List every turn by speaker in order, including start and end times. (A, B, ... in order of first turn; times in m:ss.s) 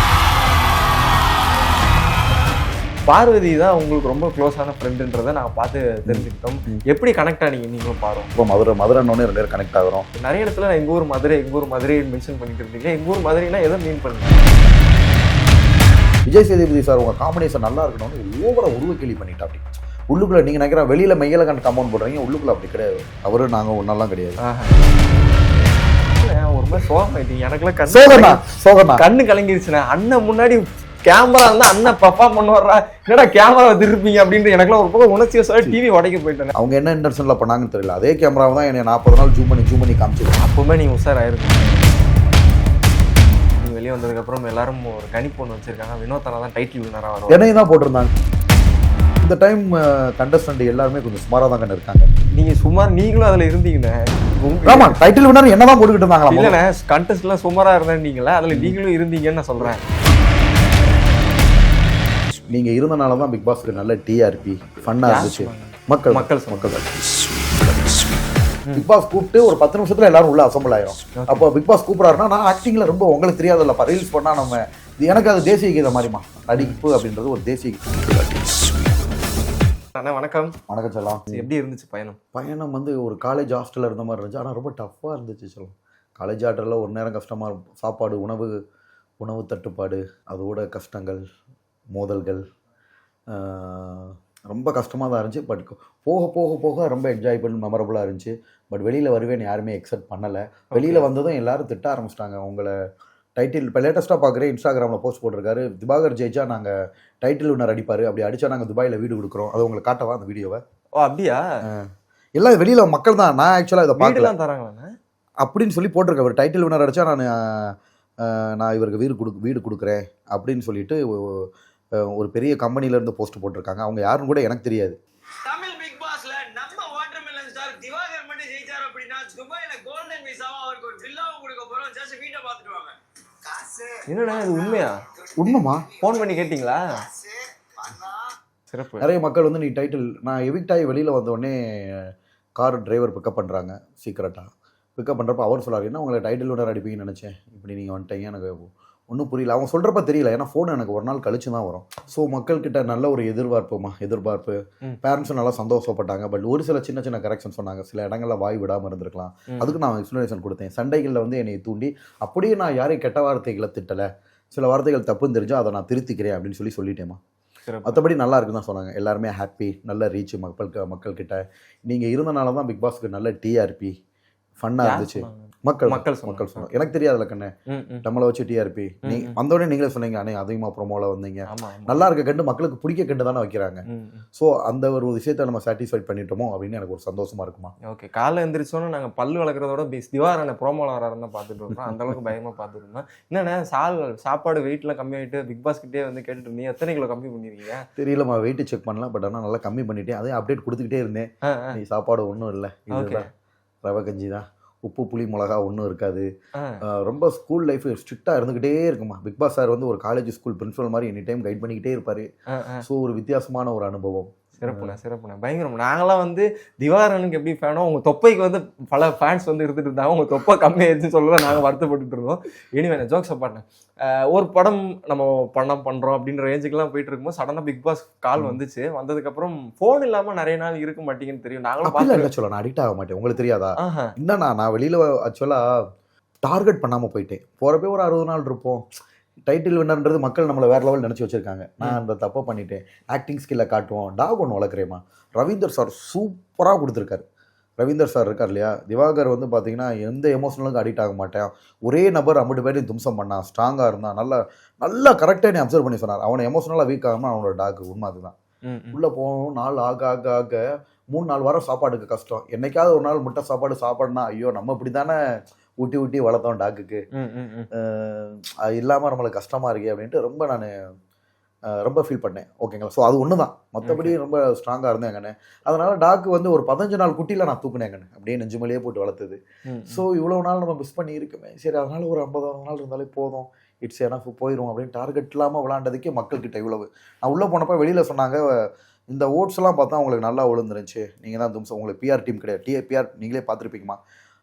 0:03.1-0:08.3 A
0:06.1-0:06.8 B
0:08.4-0:10.1 B
0:10.2-0:14.6 A
0:16.3-0:24.4 B
0:24.4-0:24.8 A
0:26.1-0:28.4 A
0:27.9-0:29.0 B
0:29.0-0:36.5 A
0:36.6-0:40.4 B
0:40.4-0:42.1 A
0:43.6-0:47.5 A
0:47.3-0:48.1 B
0:49.2-0:52.1 B
0:52.3-0:55.0 A
0:54.7-0:56.6 B
0:56.3-0:59.8 A
1:02.5-1:07.8 B
1:05.0-1:06.8 A
1:08.8-1:18.7 B
1:11.2-1:11.5 A
1:16.5-1:16.8 A
1:20.0-1:20.6 A
1:20.7-1:21.5 B
1:21.3-1:22.2 A
1:22.3-1:28.6 B
1:29.2-1:31.2 B
1:31.9-1:32.4 B
1:33.3-1:42.7 B
1:40.8-1:41.1 A
1:43.4-1:50.6 B
1:51.0-1:51.4 A
1:51.6-1:54.3 B
1:54.0-1:54.9 A
1:55.4-2:01.5 B
2:02.0-2:05.0 B
2:05.4-2:14.0 C
2:14.1-2:15.0 A
2:15.4-2:15.9 B
2:16.0-2:16.9 A
2:17.1-2:18.3 C
2:18.7-2:19.1 A
2:19.0-2:47.2 B
2:39.5-2:39.8 A
2:47.7-2:48.0 A
2:47.8-2:53.9 B
2:54.6-2:57.5 B
2:54.8-2:56.7 A
2:57.7-2:58.0 A
2:58.0-3:03.8 B
2:59.1-2:59.4 A
3:01.5-3:02.1 A
3:03.9-3:04.2 A
3:04.4-3:07.7 B
3:07.8-3:17.9 A
3:11.7-3:12.0 B
3:18.0-3:23.3 B
3:21.4-3:21.8 A
3:22.9-3:23.3 A
3:23.8-3:26.3 B
3:26.6-3:26.8 A
3:26.8-3:32.3 B
3:32.5-3:32.8 A
3:32.8-3:35.0 B
3:34.6-3:52.3 A
3:51.8-3:55.6 B
3:53.8-3:54.1 A
3:56.4-3:58.8 B
3:59.4-4:07.2 B
4:07.8-4:18.3 B
4:18.6-4:19.0 A
4:18.9-4:25.2 B
4:25.8-4:27.0 B
4:27.1-4:27.7 A
4:27.8-4:30.7 B
4:31.7-4:39.4 B
4:33.8-4:34.2 A
4:39.7-4:40.0 A
4:39.9-4:54.0 B